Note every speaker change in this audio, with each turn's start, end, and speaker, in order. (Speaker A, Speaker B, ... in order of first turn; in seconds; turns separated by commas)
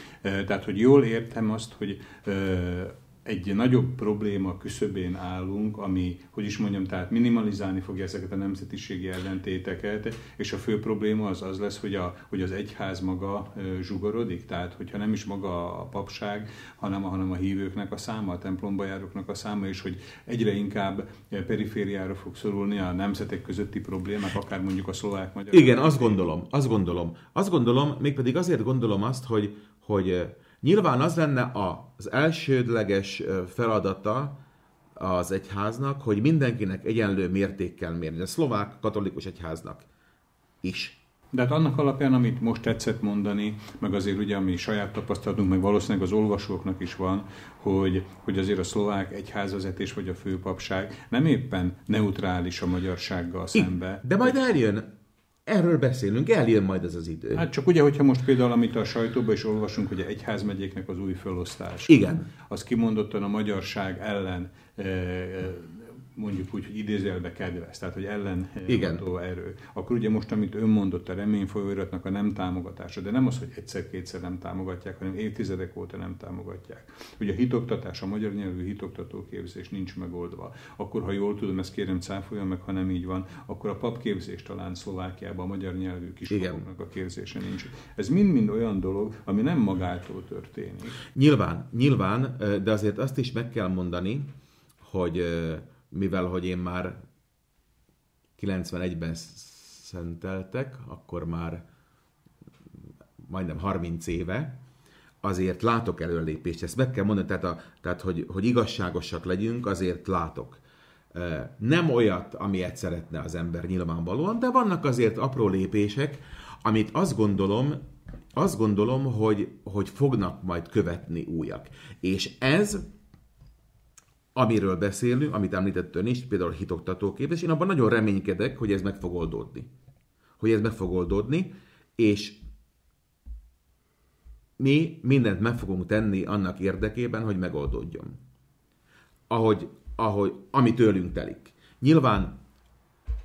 Speaker A: 0.2-26.2, Speaker B: 25.5-34.4, Speaker B: 35.0-39.9, Speaker B: 40.6-41.0, Speaker A: 41.3-54.5, Speaker B: 53.5-54.9, Speaker B: 55.5-57.5, Speaker A: 57.3-91.0, Speaker B: 61.9-62.3, Speaker B: 68.7-69.0, Speaker B: 86.3-86.6, Speaker B: 91.1-97.0, Speaker B: 98.4-101.6, Speaker B: 103.2-104.6, Speaker B: 105.2-110.6, Speaker B: 111.1-117.8, Speaker B: 118.3-122.9, Speaker B: 124.3-129.7, Speaker B: 130.4-132.4, Speaker B: 134.6-138.2, Speaker B: 139.3-142.4